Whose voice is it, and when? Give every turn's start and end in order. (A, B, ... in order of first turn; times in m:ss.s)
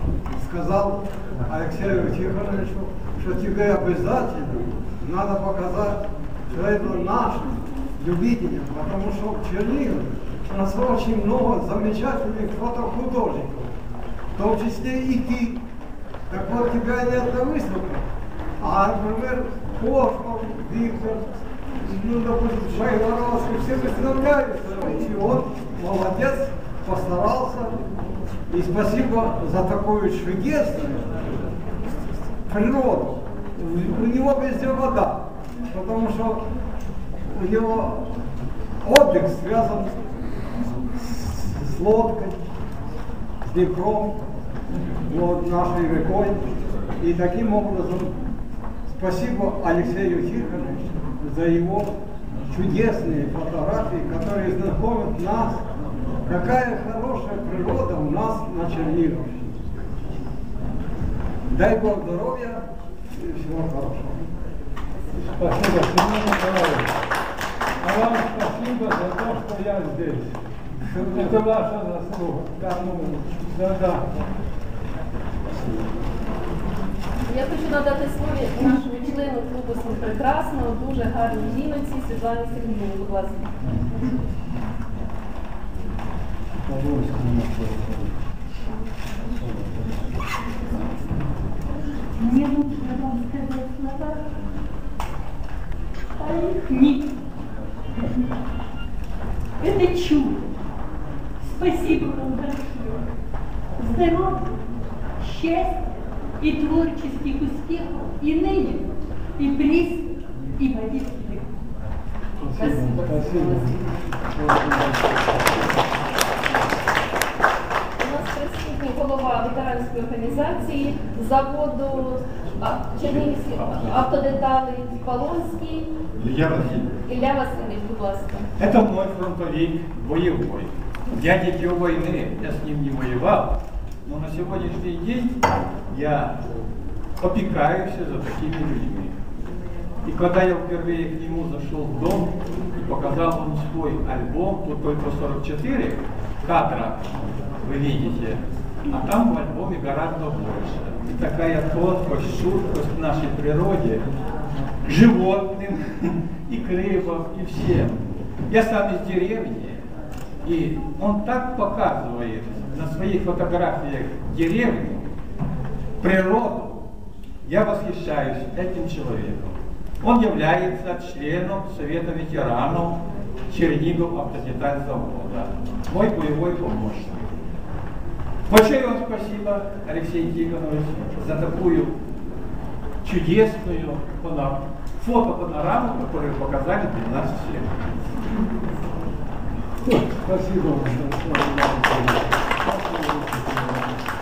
0:00.4-0:13.7 A
0:14.4-0:15.6 A
0:16.3-0:18.0 A
0:18.6-0:27.7 A
0:28.5-0:31.2 A
0:32.5-0:36.4 A
0:37.3-0:38.2 A
0:38.8-0:40.0 A
0:41.0-0:42.4 A
0:43.4-0:44.2 A
0:45.1-0:46.4 A
0:47.0-0:48.1 A
0:48.9-0:51.9 A
0:52.5-0:55.6 A
0:56.3-0:59.5 A
1:01.5-1:02.6 A
1:03.2-1:04.2 A
1:05.2-1:07.0 B
1:07.8-1:10.4 B
1:10.9-1:11.4 A
1:11.1-1:14.1 B
1:17.3-1:23.5 C
1:26.7-1:27.6 B
1:32.2-1:34.2 D
1:36.2-1:37.2 D
1:39.6-1:40.4 D
1:41.5-1:43.0 D
1:43.8-1:44.5 D
1:45.2-1:51.5 D
1:52.4-1:53.8 B
1:52.5-1:54.0 C
1:54.3-1:55.8 B
1:58.0-2:05.9 C
2:03.0-2:04.0 E
2:06.2-2:06.9 E
2:07.0-2:08.5 C
2:08.6-2:15.4 E
2:15.9-2:16.4 E
2:17.2-2:19.1 E
2:20.0-2:34.0 E
2:34.8-2:39.8 E
2:40.4-2:45.1 E
2:46.0-2:46.8 E
2:47.4-2:57.3 E
2:58.5-3:02.0 E
3:03.0-3:07.7 E
3:09.8-3:14.0 B